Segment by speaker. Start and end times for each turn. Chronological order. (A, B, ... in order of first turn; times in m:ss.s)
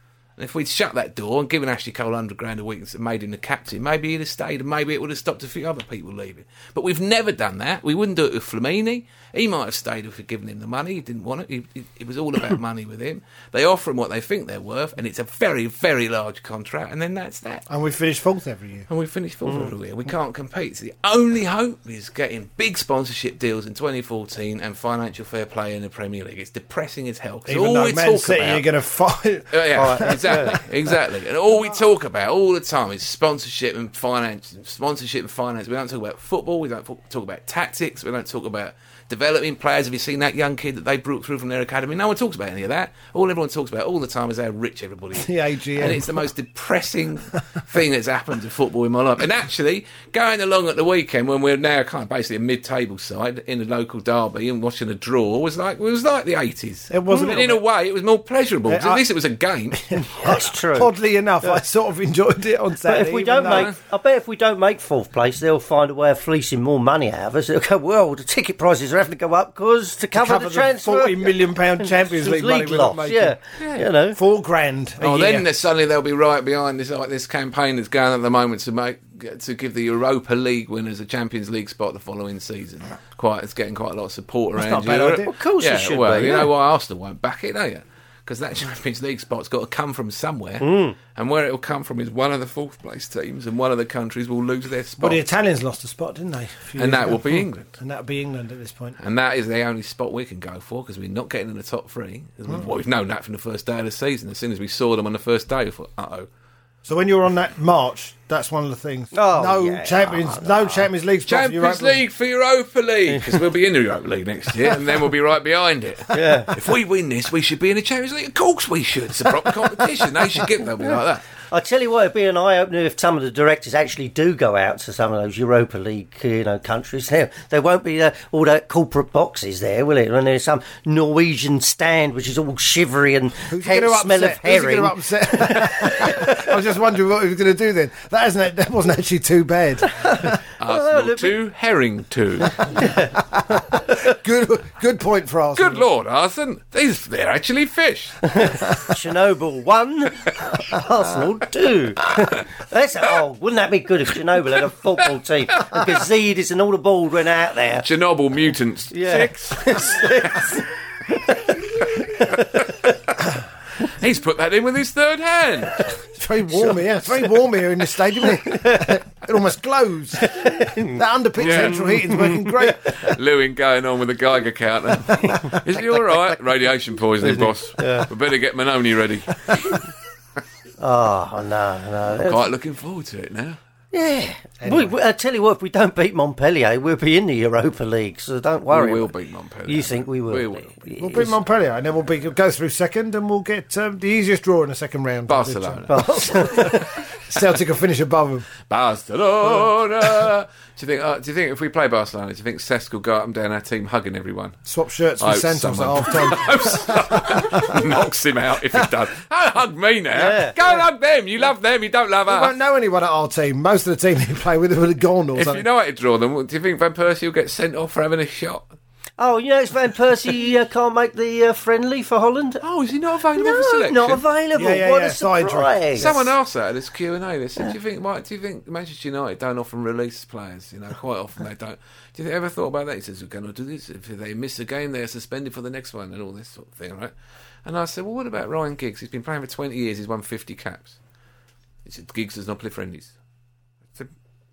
0:00.4-0:17.7 A
0:17.7-0:18.9 B
0:18.9-0:28.7 A
0:27.5-0:30.6 B
0:29.5-0:59.9 A
0:29.8-0:30.6 C
0:45.2-0:46.3 B
0:56.9-0:57.6 B
0:58.7-0:59.0 B
0:59.9-1:03.7 B
1:00.0-1:00.9 C
1:02.8-1:14.2 C
1:10.1-1:13.4 B
1:13.6-1:13.9 A
1:14.1-1:15.6 B
1:15.0-1:35.2 A
1:24.6-1:25.3 B
1:25.2-1:26.5 C
1:30.6-1:31.0 C
1:35.0-1:39.0 B
1:36.8-1:37.8 A
1:39.0-1:46.3 A
1:46.9-1:52.0 B
1:49.1-1:50.8 C
1:51.3-2:01.2 A
1:56.1-1:56.5 C
2:01.5-2:16.5 C
2:13.5-2:20.4 B
2:19.9-2:21.3 C
2:20.6-2:22.8 A
2:22.6-2:23.1 C
2:23.3-2:25.9 B
2:25.6-2:28.3 A
2:28.3-2:37.8 C
2:37.8-2:40.5 A
2:38.9-2:42.6 C
2:42.3-2:42.7 A
2:43.8-2:45.8 A
2:46.0-2:52.9 B
2:48.4-2:48.9 C
2:50.2-2:52.7 C
2:51.4-2:51.9 A
2:52.8-2:59.8 A
2:57.2-2:58.1 C
3:00.8-3:02.4 C
3:02.2-3:03.6 A
3:03.9-3:09.1 C
3:04.6-3:05.0 B
3:08.7-3:10.8 A
3:09.7-3:11.3 C
3:11.0-3:18.5 B
3:15.3-3:16.8 A
3:15.9-3:16.9 C
3:18.7-3:24.6 A
3:24.7-3:27.9 B
3:25.2-3:32.5 A
3:30.1-3:30.6 C
3:32.3-3:35.7 B
3:35.4-3:38.7 A
3:39.2-3:42.6 C
3:42.6-3:44.2 A
3:43.4-3:46.1 C
3:44.6-3:46.3 B
3:46.0-3:57.1 A
3:57.6-4:01.0 A
4:01.8-4:03.1 A